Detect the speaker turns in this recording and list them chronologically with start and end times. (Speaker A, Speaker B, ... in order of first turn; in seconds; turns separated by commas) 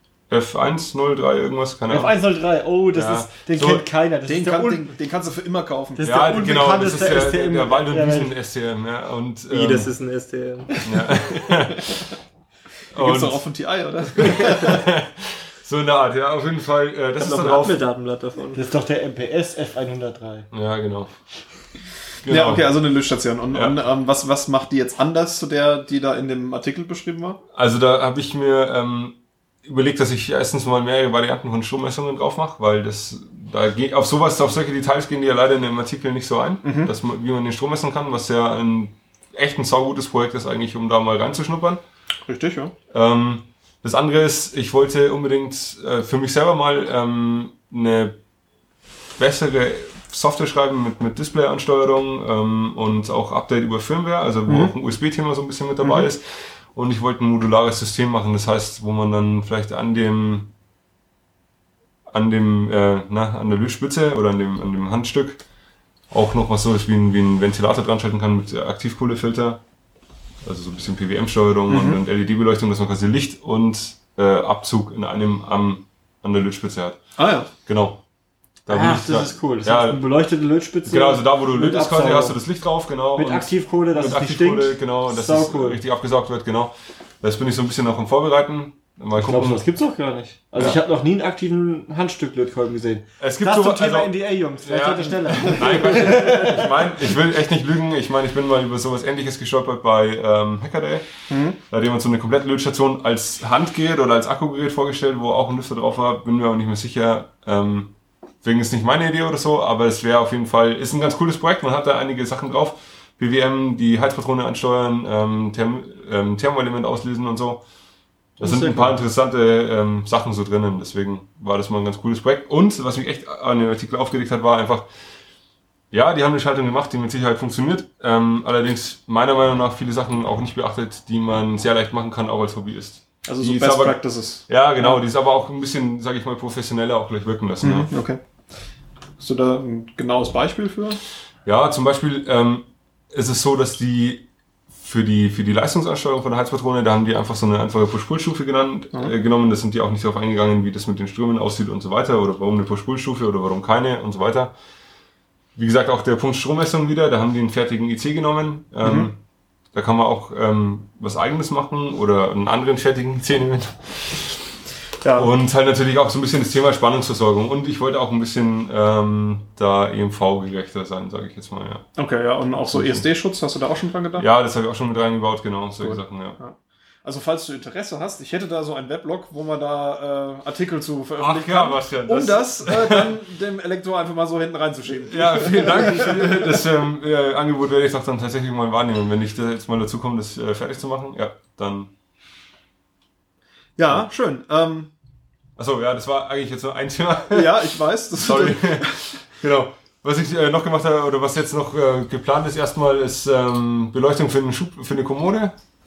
Speaker A: 0.3-2.3, Speaker B: 1.9-4.9, Speaker A: 2.9-3.8, Speaker C: 4.2-6.8, Speaker B: 6.0-8.3, Speaker A: 6.0-9.9, Speaker D: 9.5-10.8, Speaker A: 10.8-12.1, Speaker A: 12.9-13.4, Speaker C: 12.9-14.8, Speaker A: 14.2-17.8, Speaker D: 17.2-18.6, Speaker B: 18.5-20.5, Speaker A: 20.5-21.1, Speaker A: 22.2-22.7, Speaker C: 22.3-27.4, Speaker A: 27.5-41.8, Speaker C: 36.6-36.9, Speaker C: 42.2-42.7, Speaker A: 42.9-48.2, Speaker A: 49.2-60.5, Speaker C: 54.5-54.7, Speaker C: 55.8-56.1, Speaker A: 62.1-65.4, Speaker A: 66.1-69.6, Speaker A: 70.4-77.0, Speaker C: 71.7-72.0, Speaker C: 77.2-77.5, Speaker A: 77.6-78.0, Speaker A: 78.7-80.0, Speaker B: 78.7-82.4, Speaker A: 80.8-89.6, Speaker B: 83.1-85.8, Speaker B: 89.2-96.7, Speaker A: 93.2-117.6, Speaker C: 101.3-101.6, Speaker A: 118.4-124.9, Speaker B: 118.4-118.9, Speaker A: 125.9-137.9, Speaker C: 133.2-135.0, Speaker C: 137.6-138.2, Speaker C: 139.2-141.0, Speaker A: 141.4-154.5, Speaker A: 155.5-159.2, Speaker C: 158.8-159.1, Speaker A: 159.7-164.5, Speaker C: 165.0-165.3, Speaker A: 165.1-171.8, Speaker C: 171.9-174.3, Speaker A: 172.7-173.0, Speaker A: 174.2-176.4, Speaker C: 175.8-186.4, Speaker A: 181.2-183.1, Speaker A: 185.0-191.9, Speaker C: 193.8-194.9, Speaker A: 195.6-205.5, Speaker C: 197.3-199.0